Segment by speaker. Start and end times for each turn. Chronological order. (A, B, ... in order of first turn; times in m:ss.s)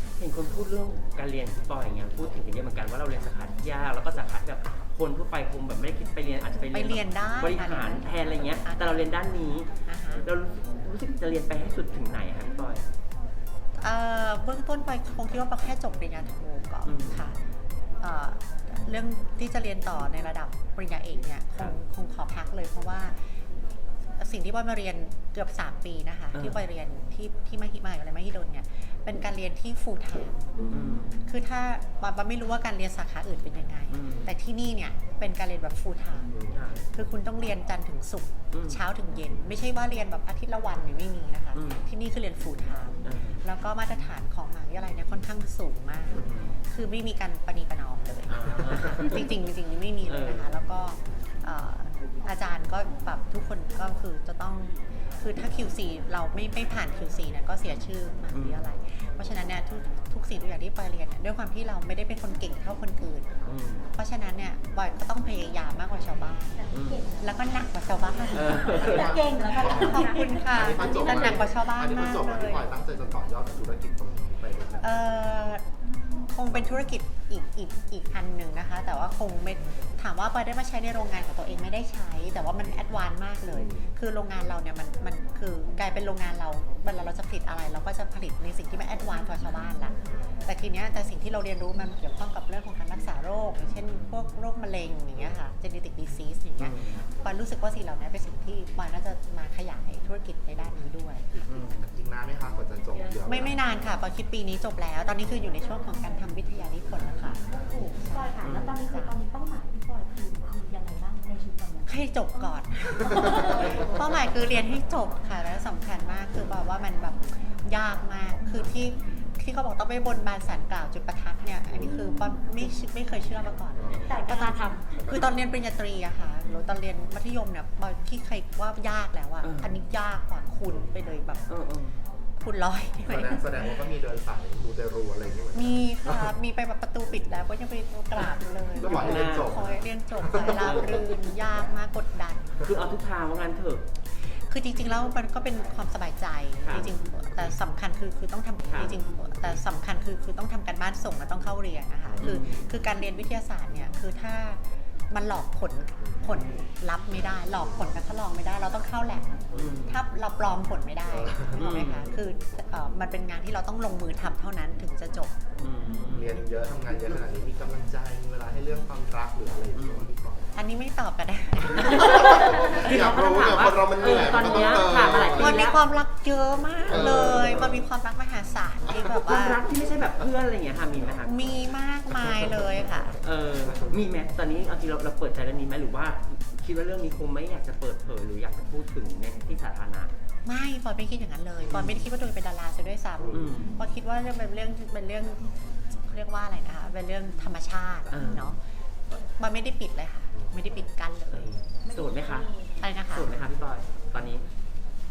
0:00.2-0:12.8 A
0:06.7-0:08.9 B
0:09.8-0:10.3 B
0:13.8-0:17.4 B
0:16.8-0:17.4 A
0:18.0-0:23.3 B
0:24.2-0:30.4 B
0:26.3-0:26.6 A
0:30.7-0:31.2 A
0:31.2-0:36.3 B
0:33.9-0:34.3 A
0:36.5-0:36.9 A
0:36.9-1:03.3 B
0:38.5-0:38.8 A
0:41.5-0:41.9 A
0:43.0-0:43.4 A
0:46.1-0:46.6 A
0:48.3-0:49.3 A
0:50.0-0:50.5 A
0:58.3-0:58.7 A
1:03.4-1:03.8 A
1:03.9-1:06.6 B
1:06.5-1:11.5 C
1:06.7-1:07.0 A
1:07.2-1:08.9 B
1:08.3-1:09.2 A
1:08.7-1:15.3 D
1:09.5-1:12.6 B
1:14.8-1:15.6 B
1:16.3-1:41.4 B
1:33.9-1:34.2 A
1:36.6-1:37.0 A
1:41.5-1:41.8 A
1:41.6-1:43.7 D
1:43.2-1:49.2 B
1:47.5-1:54.3 C
1:48.4-1:48.8 A
1:51.9-2:11.5 B
2:03.8-2:04.2 D
2:04.1-2:04.9 C
2:09.4-2:09.8 A
2:11.5-2:12.0 A
2:12.4-2:13.7 B
2:13.0-2:16.3 D
2:15.5-2:22.8 B
2:18.8-2:21.2 D
2:18.8-2:19.6 A
2:20.6-2:21.0 A
2:22.6-2:23.8 A
2:24.2-2:45.3 B
2:26.6-2:26.9 A
2:28.7-2:28.9 A
2:32.2-2:32.7 A
2:39.5-2:39.8 D
2:39.5-2:40.0 A
2:41.1-2:41.6 D
2:41.6-2:42.1 A
2:45.6-2:46.4 A
2:46.1-2:50.5 D
2:49.8-2:50.1 A
2:50.5-2:52.7 B
2:51.8-2:55.7 D
2:51.8-2:55.8 A
2:55.3-2:59.6 B
2:56.9-2:57.8 D
2:56.9-2:57.7 A
2:58.9-3:01.6 A
3:01.2-3:03.2 B
3:02.1-3:03.9 D
3:03.2-3:10.1 A
3:10.4-3:15.4 B
3:11.7-3:12.0 A
3:13.2-3:13.5 D
3:13.3-3:13.7 A
3:16.0-3:21.6 B
3:18.1-3:18.6 A
3:21.3-3:22.5 A
3:21.8-3:22.8 C
3:22.8-3:23.3 B
3:23.1-3:24.4 A